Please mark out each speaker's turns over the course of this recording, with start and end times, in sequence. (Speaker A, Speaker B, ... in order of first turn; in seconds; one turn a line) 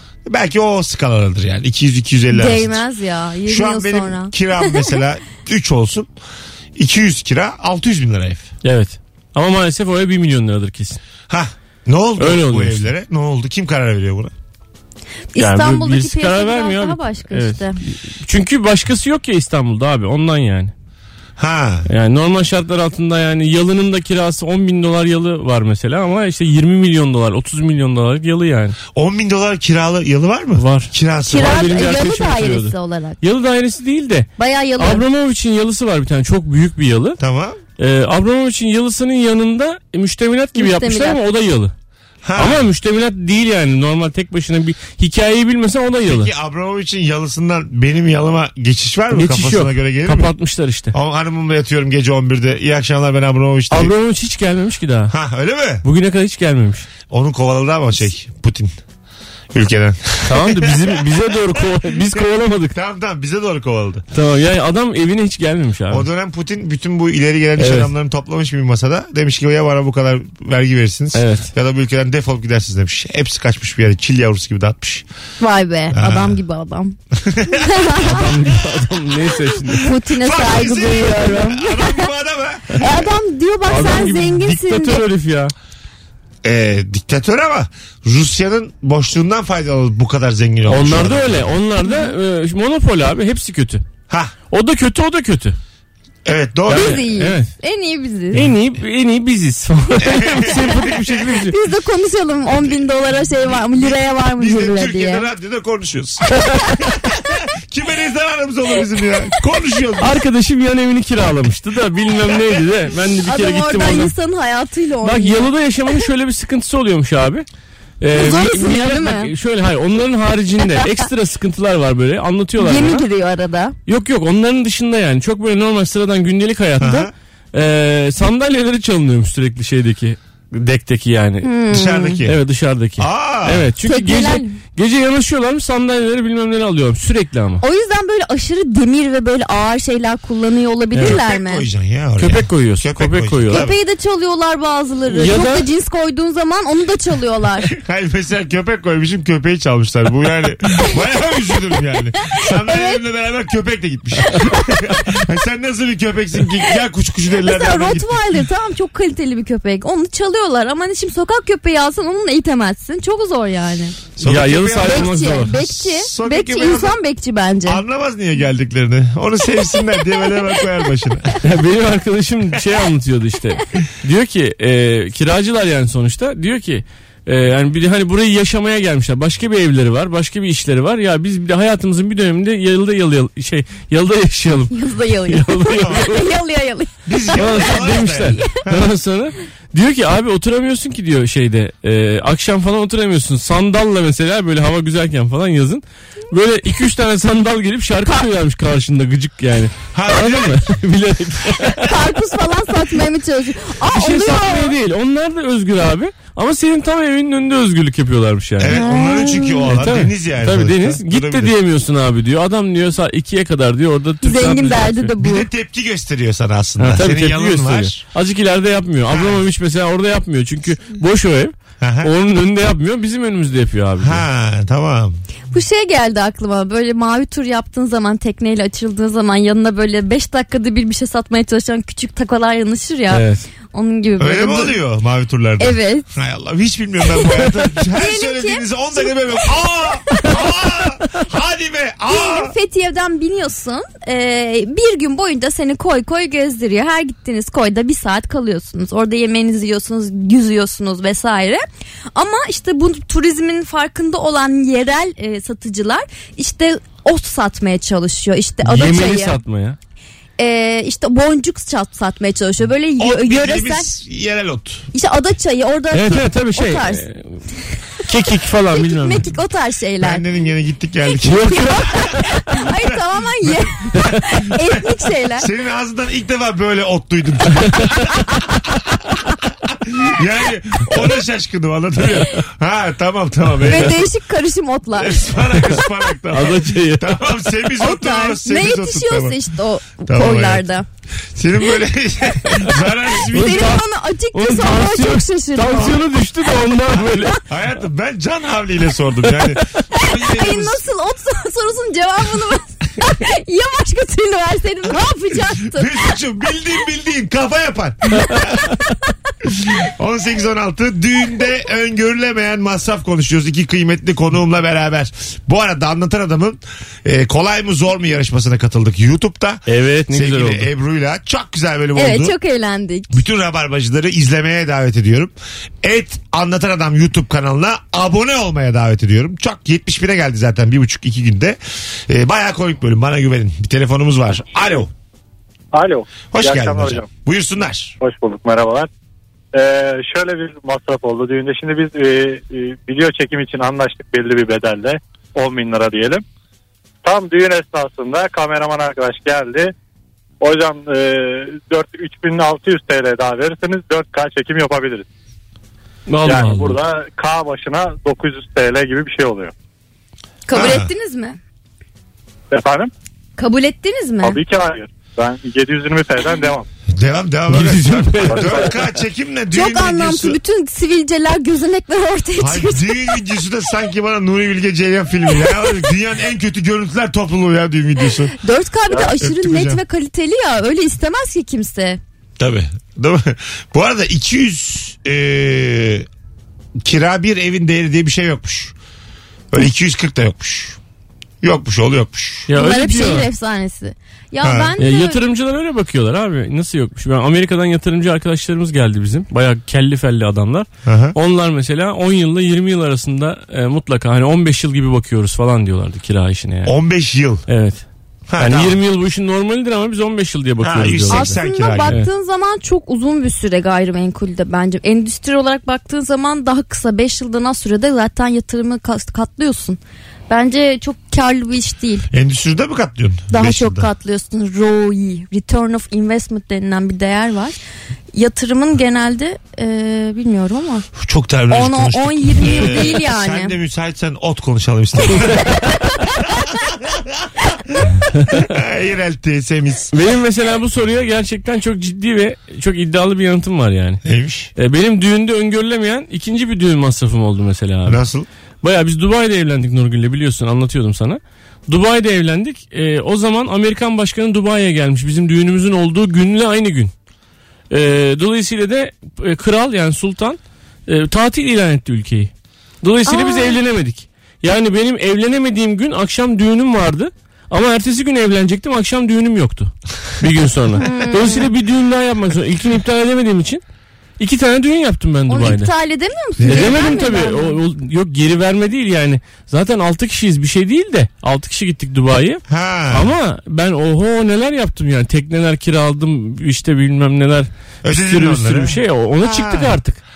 Speaker A: 0.3-2.8
Speaker B: 2.3-5.0
Speaker A: 3.5-6.1
Speaker A: 6.8-8.5
Speaker C: 8.6-11.0
Speaker A: 11.3-14.3
Speaker C: 12.2-12.8
Speaker B: 15.3-17.8
Speaker C: 15.4-20.7
Speaker A: 21.4-21.9
Speaker C: 21.9-28.8
Speaker A: 28.9-31.6
Speaker C: 30.6-34.3
Speaker B: 31.3-33.2
Speaker B: 34.4-35.0
Speaker C: 34.8-37.2
Speaker A: 37.2-37.6
Speaker C: 37.8-41.7
Speaker B: 40.5-41.2
Speaker A: 42.2-42.7
Speaker C: 42.4-46.3
Speaker A: 46.0-50.3
Speaker C: 49.1-50.9
Speaker A: 50.9-53.9
Speaker C: 53.7-55.1
Speaker A: 55.1-55.9
Speaker C: 55.8-56.9
Speaker A: 57.1-58.7
Speaker A: 59.5-64.0
Speaker C: 60.3-62.8
Speaker C: 64.1-66.1
Speaker A: 65.9-75.0
Speaker C: 67.6-67.9
Speaker C: 71.1-71.5
Speaker B: 75.4-77.0
Speaker A: 75.9-76.4
Speaker A: 77.2-79.4
Speaker B: 77.5-78.3
Speaker C: 78.0-79.9
Speaker B: 79.7-82.1
Speaker A: 80.1-83.0
Speaker B: 82.8-85.0
Speaker C: 83.7-85.5
Speaker A: 86.4-91.5
Speaker C: 90.7-93.8
Speaker B: 91.8-92.1
Speaker C: 94.5-95.6
Speaker A: 96.2-97.0
Speaker C: 96.7-97.5
Speaker B: 96.7-98.5
Speaker C: 98.3-101.5
Speaker A: 100.0-101.2
Speaker B: 101.5-105.3
Speaker A: 103.5-106.3
Speaker A: 106.8-110.2
Speaker C: 110.0-114.1
Speaker B: 113.3-115.5
Speaker C: 115.0-117.5
Speaker C: 118.0-123.0
Speaker B: 118.2-119.3
Speaker B: 120.8-121.0
Speaker B: 122.6-123.8
Speaker C: 123.9-131.5
Speaker A: 126.8-127.1
Speaker B: 131.4-132.2
Speaker A: 131.7-132.4
Speaker C: 132.2-137.6
Speaker A: 133.0-133.7
Speaker B: 133.8-134.6
Speaker B: 137.6-141.7
Speaker A: 141.0-143.8
Speaker C: 142.2-143.7
Speaker B: 143.5-147.7
Speaker C: 145.1-145.7
Speaker A: 147.7-158.2
Speaker B: 152.4-153.0
Speaker B: 154.3-155.2
Speaker B: 157.4-164.0
Speaker A: 164.2-167.0
Speaker C: 164.2-165.6
Speaker B: 164.8-167.8
Speaker A: 167.7-171.4
Speaker C: 171.4-186.3
Speaker B: 184.7-187.7
Speaker A: 185.8-186.1
Speaker A: 187.1-188.9
Speaker C: 187.4-201.9
Speaker A: 199.9-200.7
Speaker B: 201.8-204.8
Speaker C: 203.8-208.8
Speaker A: 208.6-211.5
Speaker B: 208.7-209.7
Speaker C: 209.7-215.1
Speaker B: 214.2-215.5
Speaker A: 215.2-218.0
Speaker C: 216.8-224.2
Speaker A: 219.1-219.4
Speaker A: 221.8-222.1
Speaker A: 224.0-225.2
Speaker B: 225.5-234.8
Speaker C: 233.1-233.5
Speaker A: 234.2-242.6
Speaker B: 235.6-236.1
Speaker B: 237.9-239.5
Speaker B: 240.1-240.4
Speaker B: 242.1-259.4
Speaker C: 258.6-259.8
Speaker B: 260.4-263.9
Speaker A: 263.0-264.9
Speaker B: 264.9-267.0
Speaker C: 265.9-267.4
Speaker C: 268.0-269.3
Speaker B: 268.7-270.2
Speaker A: 270.0-272.1
Speaker C: 271.2-272.3
Speaker B: 271.4-275.5
Speaker A: 272.7-273.0
Speaker A: 275.4-278.1
Speaker C: 277.7-277.9
Speaker A: 279.7-284.1
Speaker B: 283.6-285.3
Speaker A: 284.9-289.4
Speaker C: 286.3-287.2
Speaker B: 287.8-290.9
Speaker A: 290.1-290.6
Speaker A: 291.4-293.8
Speaker C: 293.3-297.4
Speaker B: 293.3-296.0
Speaker A: 297.3-300.8
Speaker B: 299.9-306.1
Speaker A: 305.6-308.7
Speaker A: 309.4-322.4
Speaker C: 319.7-320.7
Speaker B: 321.9-323.1
Speaker A: 323.1-334.9
Speaker D: 335.7-337.1
Speaker A: 336.3-338.0
Speaker D: 338.0-338.9
Speaker D: 339.5-346.2
Speaker D: 347.0-349.7
Speaker D: 350.4-355.1
Speaker C: 356.1-356.8
Speaker D: 356.2-359.5
Speaker B: 360.5-361.4
Speaker A: 360.5-360.9
Speaker D: 362.5-362.9
Speaker B: 363.4-364.4
Speaker D: 364.2-366.7
Speaker A: 366.9-370.4
Speaker C: 367.5-368.9
Speaker D: 368.3-368.7
Speaker B: 369.5-373.2
Speaker A: 372.4-378.4
Speaker B: 378.4-382.0
Speaker A: 379.1-379.8
Speaker A: 382.4-386.1
Speaker A: 386.8-388.8
Speaker A: 389.5-390.8
Speaker A: 391.4-392.5
Speaker C: 392.5-393.3
Speaker B: 392.5-395.2
Speaker A: 394.4-394.7
Speaker C: 394.8-406.8
Speaker A: 400.9-401.2
Speaker A: 406.6-407.4
Speaker C: 407.5-407.8
Speaker A: 408.3-408.8
Speaker C: 408.4-411.4
Speaker A: 410.6-412.0
Speaker B: 411.1-422.1
Speaker A: 422.1-423.9
Speaker B: 423.3-427.6
Speaker B: 428.1-430.9
Speaker A: 431.0-439.9
Speaker B: 431.5-433.6
Speaker C: 438.1-438.4
Speaker C: 439.9-444.0
Speaker A: 444.1-444.5
Speaker C: 444.6-448.0
Speaker A: 447.9-448.3
Speaker C: 448.6-456.9
Speaker C: 457.7-462.3
Speaker C: 462.8-473.6
Speaker B: 463.1-463.6
Speaker B: 470.8-471.5
Speaker C: 474.2-475.7
Speaker B: 475.3-477.6
Speaker A: 476.4-476.8
Speaker C: 476.5-490.0
Speaker A: 482.5-483.1
Speaker A: 487.8-489.8